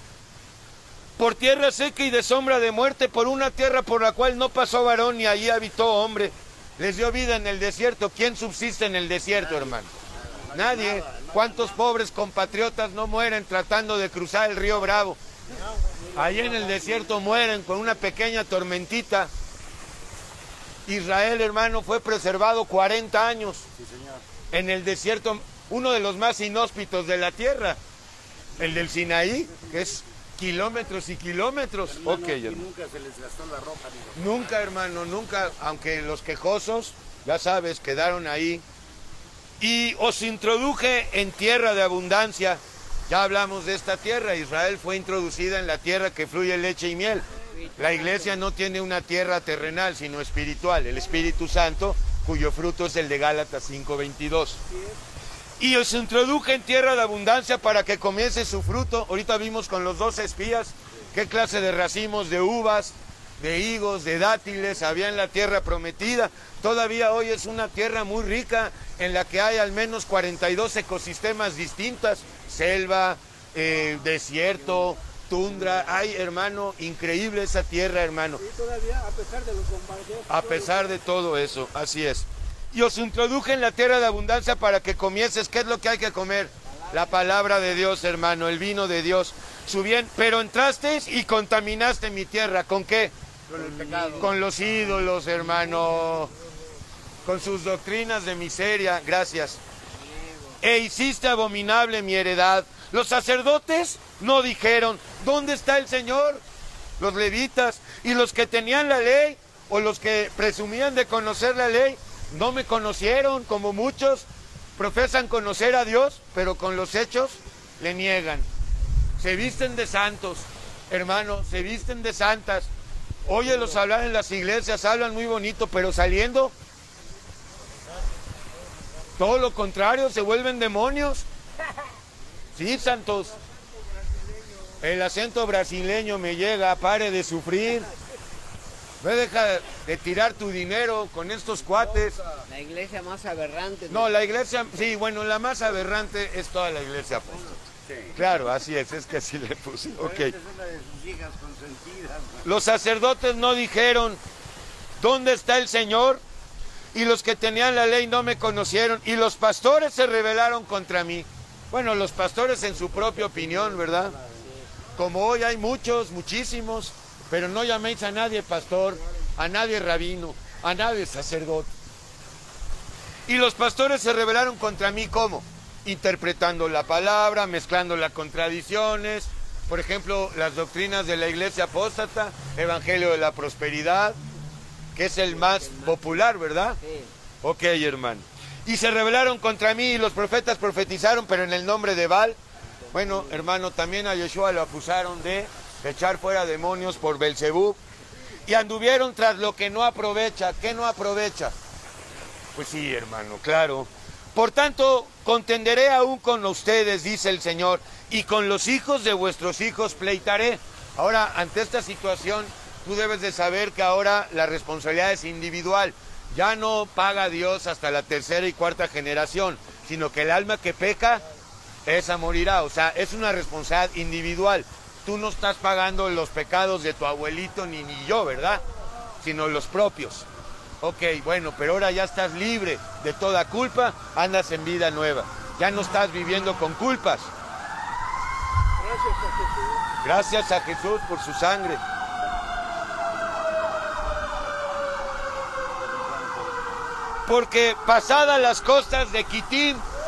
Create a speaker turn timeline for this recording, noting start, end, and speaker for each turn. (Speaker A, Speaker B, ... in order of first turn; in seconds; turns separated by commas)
Speaker A: 1.2-9.9, Speaker B: 10.3-11.6, Speaker A: 10.5-15.2, Speaker A: 16.1-19.3, Speaker A: 20.9-23.6, Speaker B: 23.8-24.2, Speaker A: 24.5-27.8, Speaker A: 28.6-32.6, Speaker B: 31.9-34.4, Speaker A: 34.1-38.6, Speaker A: 39.6-47.3, Speaker C: 47.5-48.4, Speaker A: 47.8-54.6, Speaker A: 55.6-78.4, Speaker D: 78.4-80.9, Speaker A: 80.3-93.1, Speaker B: 93.5-94.3, Speaker C: 93.6-94.2, Speaker A: 94.2-96.3, Speaker A: 97.2-99.6, Speaker C: 100.0-100.5, Speaker A: 100.6-106.4, Speaker A: 107.0-114.3, Speaker A: 114.8-118.5, Speaker A: 119.2-122.7, Speaker A: 123.3-126.5, Speaker A: 129.2-131.2, Speaker A: 132.6-133.3, Speaker A: 134.8-137.9, Speaker A: 139.0-142.2, Speaker C: 142.5-144.1, Speaker A: 143.9-147.6, Speaker B: 147.9-148.2, Speaker A: 148.2-150.3, Speaker B: 150.0-152.5, Speaker A: 152.4-154.2, Speaker A: 155.0-156.2, Speaker A: 156.9-164.2, Speaker A: 165.0-171.7, Speaker A: 173.3-184.2, Speaker A: 184.9-186.8, Speaker C: 185.3-186.1, Speaker C: 186.8-187.1, Speaker A: 187.4-192.4, Speaker C: 192.9-193.4, Speaker A: 192.9-197.8, Speaker A: 198.5-201.5, Speaker A: 202.6-221.2, Speaker A: 221.9-228.6, Speaker A: 229.2-230.3, Speaker A: 230.8-237.3, Speaker A: 240.0-241.8, Speaker B: 245.8-246.6, Speaker A: 247.3-249.8